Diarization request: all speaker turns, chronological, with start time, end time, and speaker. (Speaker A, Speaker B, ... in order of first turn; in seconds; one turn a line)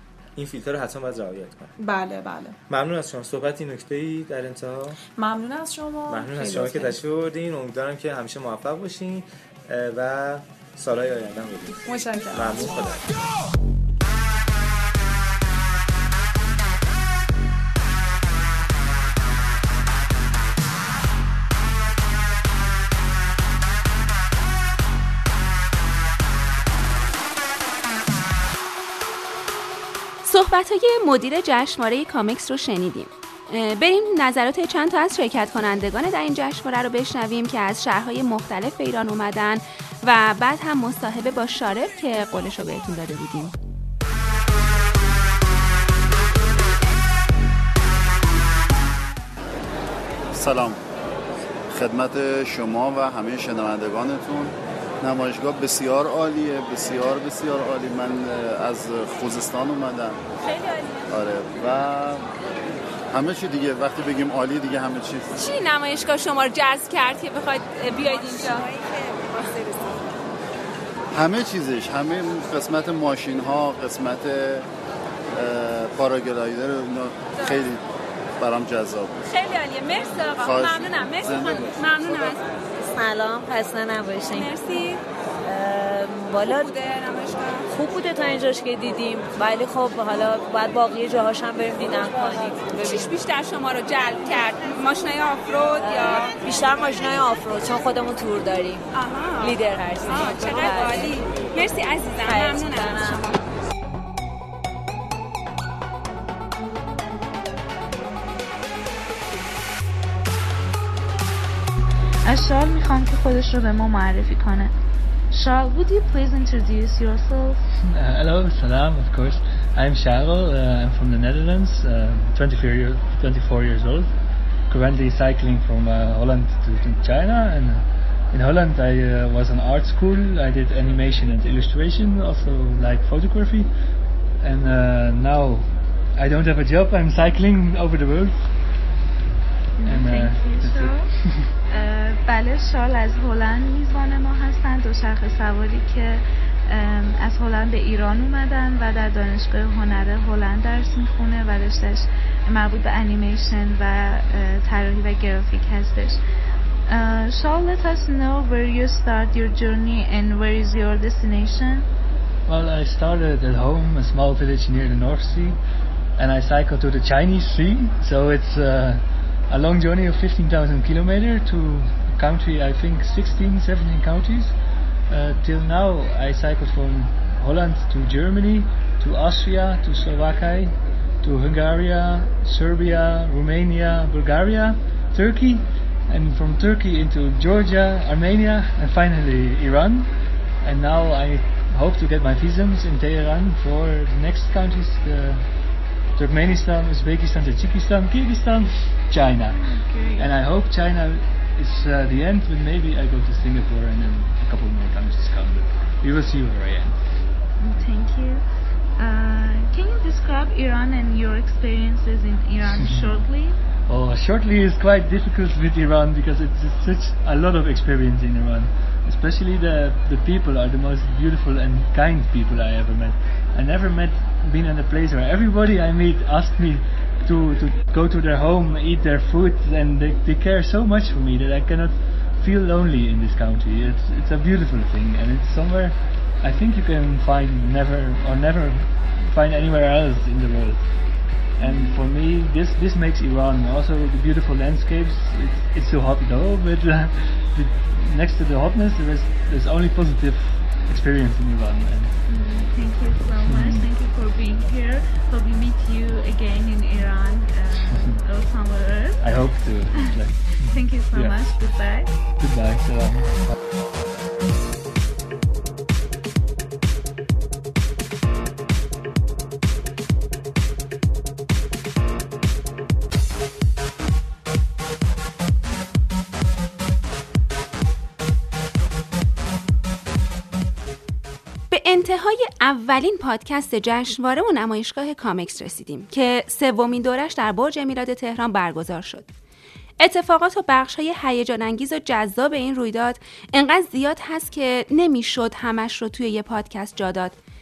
Speaker A: 0.3-1.7
Speaker B: 1.8-2.6
Speaker A: 2.7-5.0
Speaker B: 5.2-7.0
Speaker A: 6.1-13.1
Speaker B: 11.9-12.7
Speaker C: 30.2-43.5
Speaker D: 50.3-50.8
Speaker D: 51.7-60.2
Speaker D: 61.1-62.3
Speaker D: 63.1-65.3
Speaker C: 65.4-68.7
Speaker D: 71.1-74.7
Speaker D: 75.3-77.8
Speaker D: 78.4-79.2
Speaker C: 79.5-80.2
Speaker D: 80.3-82.4
Speaker E: 82.8-84.9
Speaker E: 85.4-86.9
Speaker E: 87.6-93.2
Speaker C: 93.0-95.8
Speaker E: 95.7-101.3
Speaker C: 99.0-99.3
Speaker C: 100.3-100.9
Speaker C: 101.5-103.1
Speaker E: 102.2-103.4
Speaker F: 112.2-114.7
Speaker F: 115.3-117.6
Speaker G: 117.8-124.1
Speaker G: 124.7-133.8
Speaker G: 134.4-138.5
Speaker F: 139.8-156.2
Speaker G: 139.8-141.5
Speaker F: 156.9-161.9
Speaker G: 162.4-165.6
Speaker G: 166.2-174.5
Speaker G: 175.1-195.5
Speaker G: 196.1-207.0
Speaker F: 199.5-200.3
Speaker F: 207.6-208.4
Speaker F: 209.0-213.6
Speaker G: 212.8-213.2
Speaker G: 213.9-252.2
Speaker F: 241.6-242.1
Speaker F: 252.2-262.2
Speaker G: 253.4-253.9
Speaker G: 259.2-261.4
Speaker G: 262.4-263.5
Speaker C: 281.7-289.3
Speaker C: 290.0-297.3